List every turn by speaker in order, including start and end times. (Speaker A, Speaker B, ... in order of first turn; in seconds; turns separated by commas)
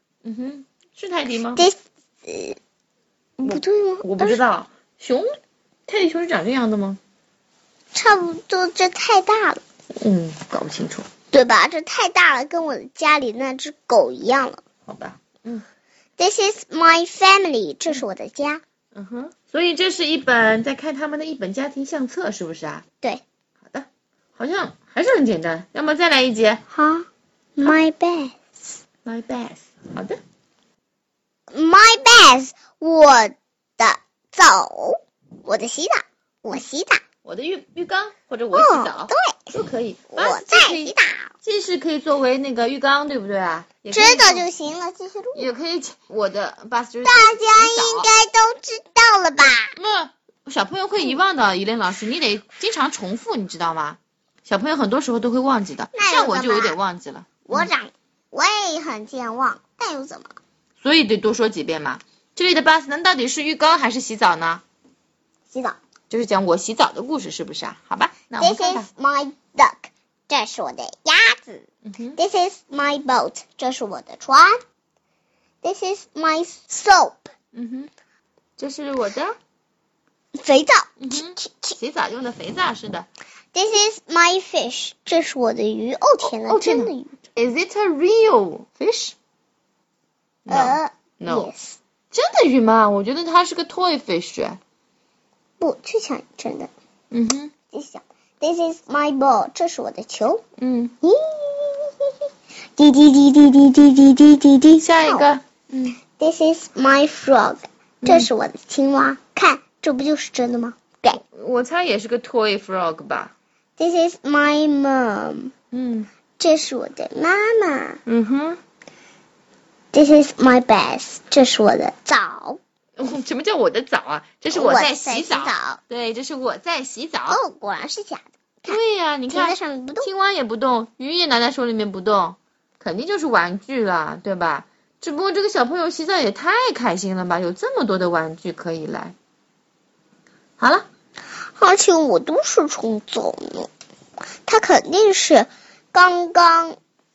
Speaker A: 0.2-1.6, Speaker B: 1.6-2.6, Speaker B: 3.4-4.4, Speaker A: 3.4-5.3, Speaker A: 5.9-7.0, Speaker B: 7.9-9.6, Speaker A: 10.0-11.1, Speaker B: 11.3-14.6, Speaker A: 14.8-15.6, Speaker B: 16.2-18.6, Speaker A: 18.9-22.8, Speaker A: 23.6-26.6, Speaker B: 26.7-28.7, Speaker A: 29.0-30.2, Speaker B: 31.5-37.0, Speaker A: 37.2-40.9, Speaker B: 38.5-39.5, Speaker B: 40.1-41.3, Speaker A: 41.4-44.5, Speaker B: 43.9-45.5, Speaker A: 45.3-48.1, Speaker B: 47.0-49.7, Speaker A: 49.7-57.7, Speaker B: 55.9-56.8, Speaker B: 57.4-60.4, Speaker A: 60.8-64.6, Speaker B: 65.5-65.8, Speaker A: 66.1-68.9, Speaker B: 68.4-74.6, Speaker A: 71.8-72.2, Speaker B: 75.6-77.3, Speaker A: 77.5-77.9, Speaker A: 78.6-79.4, Speaker B: 80.4-81.8, Speaker A: 81.0-83.1, Speaker B: 83.5-87.1, Speaker A: 86.2-89.1, Speaker A: 90.5-91.5, Speaker B: 90.5-91.8, Speaker A: 92.1-94.6, Speaker B: 95.6-96.7, Speaker A: 97.1-97.5, Speaker B: 97.7-100.4, Speaker A: 100.6-100.9, Speaker B: 101.0-102.1, Speaker B: 102.8-105.3, Speaker A: 104.8-105.9, Speaker B: 106.1-111.2, Speaker A: 108.0-108.3, Speaker A: 111.3-113.3, Speaker B: 113.8-115.5, Speaker A: 115.7-116.1, Speaker B: 116.4-118.0, Speaker A: 118.0-118.6, Speaker B: 119.9-122.6, Speaker A: 123.0-127.4, Speaker B: 124.5-125.8, Speaker B: 127.3-128.8, Speaker A: 128.7-139.1, Speaker B: 129.3-130.1, Speaker A: 140.6-140.9, Speaker B: 141.6-143.7, Speaker B: 144.4-146.8